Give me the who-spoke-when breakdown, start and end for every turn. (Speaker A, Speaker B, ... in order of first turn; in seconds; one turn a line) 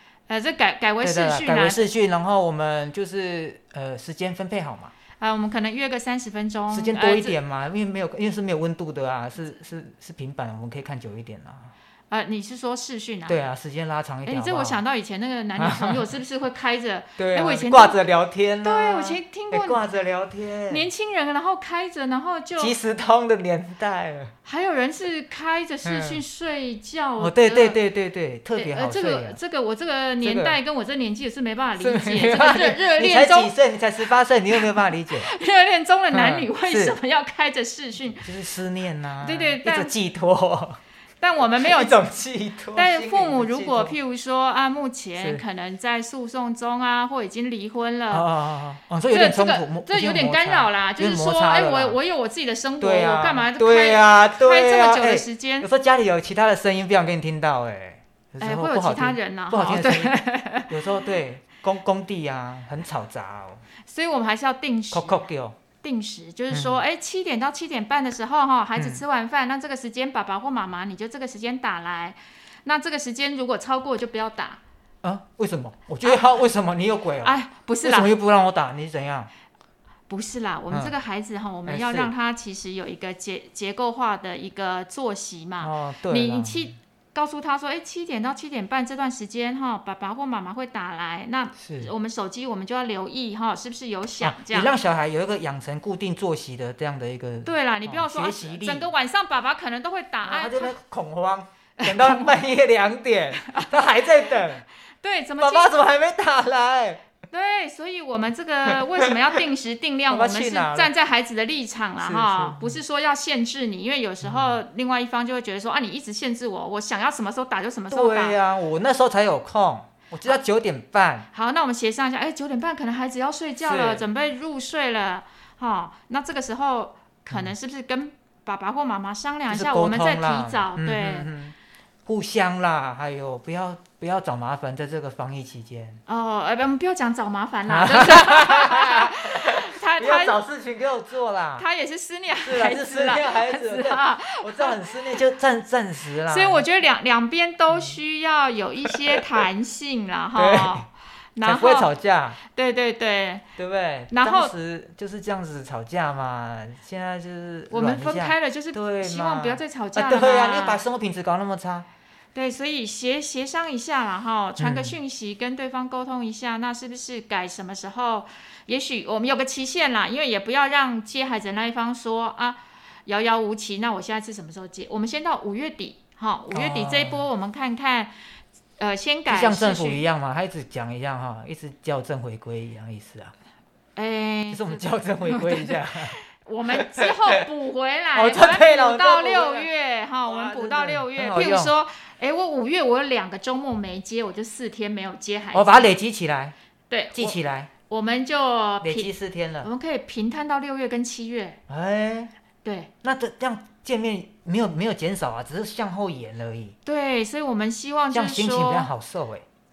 Speaker A: 0.3-1.9
Speaker B: 1.0-4.9
Speaker A: 5.2-7.3
Speaker B: 6.7-11.7
Speaker A: 12.1-13.5
Speaker B: 13.3-14.8
Speaker A: 14.2-18.0
Speaker B: 15.6-16.1
Speaker B: 17.2-20.9
Speaker A: 18.6-19.8
Speaker A: 20.7-22.7
Speaker B: 22.6-24.3
Speaker A: 24.4-27.8
Speaker B: 25.8-26.2
Speaker B: 27.2-29.4
Speaker A: 28.6-33.5
Speaker B: 30.2-30.6
Speaker B: 31.8-35.3
Speaker A: 34.5-38.3
Speaker B: 36.1-37.0
Speaker B: 38.2-40.8
Speaker A: 39.2-39.9
Speaker A: 41.2-42.0
Speaker B: 41.4-44.0
Speaker A: 42.7-48.3
Speaker B: 45.2-45.4
Speaker B: 48.1-52.0
Speaker A: 49.1-55.7
Speaker B: 52.8-63.6
Speaker A: 58.4-60.8
Speaker A: 63.8-65.2
Speaker B: 64.9-65.5
Speaker A: 65.8-74.6
Speaker B: 66.5-66.8
Speaker B: 68.7-69.0
Speaker B: 75.0-79.3
Speaker A: 77.2-78.1
Speaker A: 80.1-94.7
Speaker B: 81.7-82.1
Speaker B: 85.6-86.7
Speaker B: 91.5-91.9
Speaker B: 94.2-98.9
Speaker A: 97.4-100.7
Speaker B: 100.2-104.6
Speaker A: 101.8-102.4
Speaker A: 103.4-104.5
Speaker A: 105.0-105.7
Speaker B: 105.4-107.0
Speaker A: 107.3-118.4
Speaker B: 110.1-110.9
Speaker B: 112.0-112.8
Speaker B: 114.2-114.6
Speaker B: 117.9-121.3
Speaker A: 121.3-131.3
Speaker B: 123.6-124.0
Speaker B: 129.5-136.0
Speaker A: 136.1-140.4
Speaker B: 137.7-141.6
Speaker A: 141.6-145.0
Speaker B: 142.4-146.6
Speaker A: 146.2-151.9
Speaker B: 150.3-150.9
Speaker B: 151.4-152.4
Speaker A: 152.5-153.4
Speaker B: 153.6-161.9
Speaker A: 154.1-154.5
Speaker A: 157.7-160.8
Speaker A: 162.3-178.2
Speaker B: 164.6-164.9
Speaker B: 176.5-177.3
Speaker A: 178.8-180.0
Speaker B: 179.3-183.3
Speaker A: 183.9-195.9
Speaker B: 184.5-186.2
Speaker B: 186.8-187.1
Speaker B: 188.1-189.7
Speaker B: 190.2-191.7
Speaker B: 195.5-196.5
Speaker A: 196.9-199.1
Speaker B: 197.1-197.7
Speaker B: 198.8-199.7
Speaker A: 199.6-201.6
Speaker B: 201.7-202.3
Speaker A: 202.6-202.9
Speaker B: 203.0-206.8
Speaker A: 206.8-208.9
Speaker B: 208.1-209.4